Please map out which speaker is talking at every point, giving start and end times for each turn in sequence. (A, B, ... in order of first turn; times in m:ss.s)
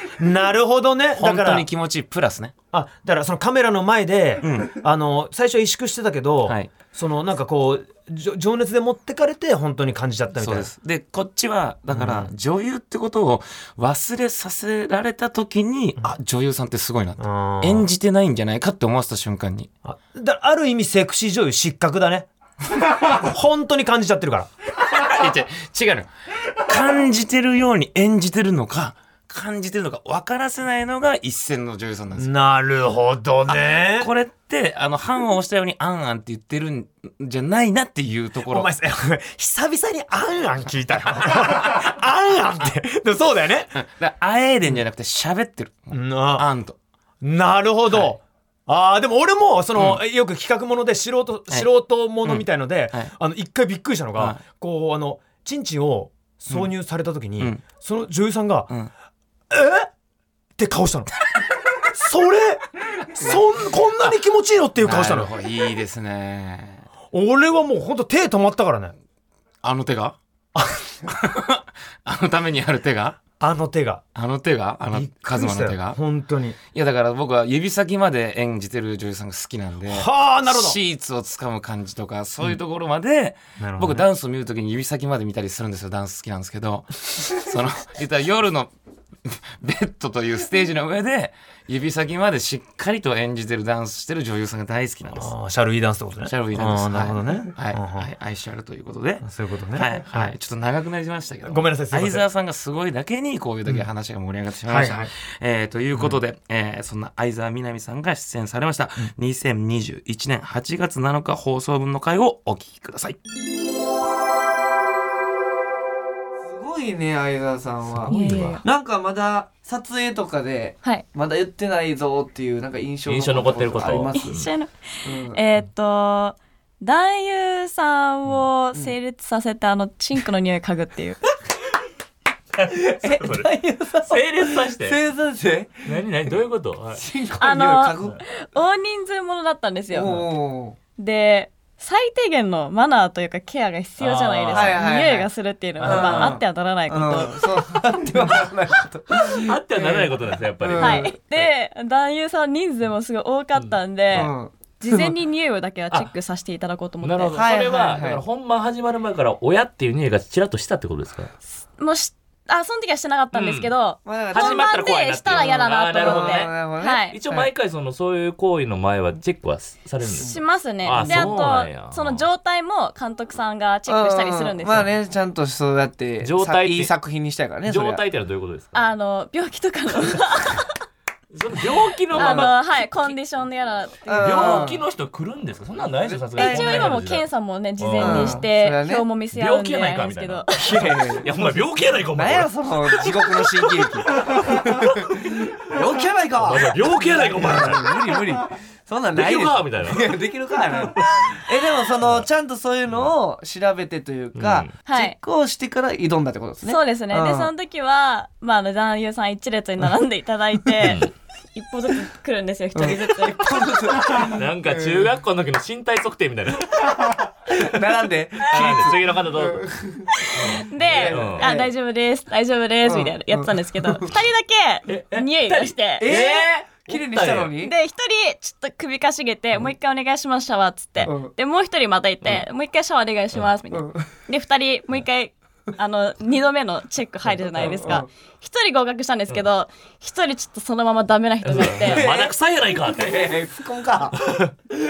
0:00.2-0:01.7 A
0:01.1-0:02.5 B
0:02.7-0:10.7 A
0:04.4-0:04.8 B
0:06.4-0:06.7 B
0:10.3-0:19.7 B
0:11.9-0:12.3 A
0:17.2-0:17.9 A
0:19.8-0:22.3 A
0:23.1-0:24.5 A
0:24.8-0:32.3 B
0:32.2-0:34.1 A
0:33.5-0:38.7 B
0:38.5-0:43.8 A
0:43.7-0:46.8 B
0:45.9-0:46.5 A
0:47.2-0:58.7 A
0:47.9-0:48.2 B
0:49.7-0:50.0 B
0:52.2-0:53.1 B
0:54.2-0:54.4 B
0:59.5-0:59.9 A
1:00.6-1:01.1 A
1:01.9-1:05.3 A
1:03.2-1:04.2 B
1:04.8-1:06.9 B
1:07.1-1:08.9 A
1:09.6-1:10.2 B
1:10.5-1:10.8 A
1:11.1-1:13.2 B
1:13.4-1:14.0 A
1:14.1-1:16.0 B
1:14.9-1:16.6 A
1:16.7-1:28.7 B
1:19.9-1:20.8 A
1:23.6-1:24.1 A
1:29.2-1:35.3 B
1:35.1-1:38.1 A
1:36.2-1:53.2 B
1:39.2-1:40.3 A
1:41.4-1:42.2 A
1:44.7-1:45.1 A
1:56.4-2:04.3 C
1:57.9-1:58.6 D
1:58.1-1:58.6 E
2:03.0-2:04.5 D
2:04.1-2:11.2 E
2:05.0-2:05.4 C
2:12.6-2:13.5 D
2:12.7-2:16.3 C
2:14.0-2:15.0 D
2:15.8-2:17.0 D
2:17.0-2:18.2 C
2:17.4-2:20.2 E
2:19.9-2:20.8 C
2:21.0-2:27.5 E
2:24.0-2:24.8 D
2:24.5-2:25.3 C
2:25.8-2:26.4 D
2:25.8-2:31.2 C
2:29.3-2:31.4 D
2:30.8-2:37.4 E
2:33.5-2:34.3 D
2:34.1-2:35.1 C
2:37.0-2:41.3 D
2:37.3-2:38.2 C
2:41.8-2:47.2 E
2:43.3-2:52.2 D
2:44.0-2:47.5 C
2:50.1-2:54.9 E
2:50.9-2:51.4 C
2:53.9-2:58.0 C
2:56.2-2:56.9 D
2:57.6-2:58.8 D
2:58.7-3:00.7 E
3:01.3-3:03.2 D
3:02.1-3:04.6 E
3:02.1-3:02.5 C
3:04.0-3:04.8 C
3:04.2-3:07.2 D
3:06.0-3:07.0 C
3:06.4-3:10.8 E
3:07.8-3:08.5 D
3:08.0-3:09.0 C
3:09.3-3:15.1 D
3:10.6-3:11.6 C
3:12.1-3:27.5 C
3:16.4-3:18.2 D
3:19.1-3:20.2 D
3:21.0-3:21.3 D
3:22.0-3:22.3 D
3:24.3-3:24.7 D
3:24.8-3:25.2 E
3:26.6-3:33.6 E
3:30.8-3:31.1 D
3:32.7-3:35.1 C
3:34.1-3:37.7 D
3:37.5-3:40.1 C
3:38.5-3:39.7 D
3:40.3-3:41.5 D
3:40.5-3:46.1 E
3:40.7-3:41.7 C
3:42.8-3:44.1 C
3:44.9-3:47.5 D
3:46.0-3:47.7 C
3:47.6-4:02.1 E
3:51.0-3:51.3 C
3:53.7-3:54.1 C
3:57.4-3:58.1 C
4:01.4-4:03.4 D
4:01.7-4:04.4 C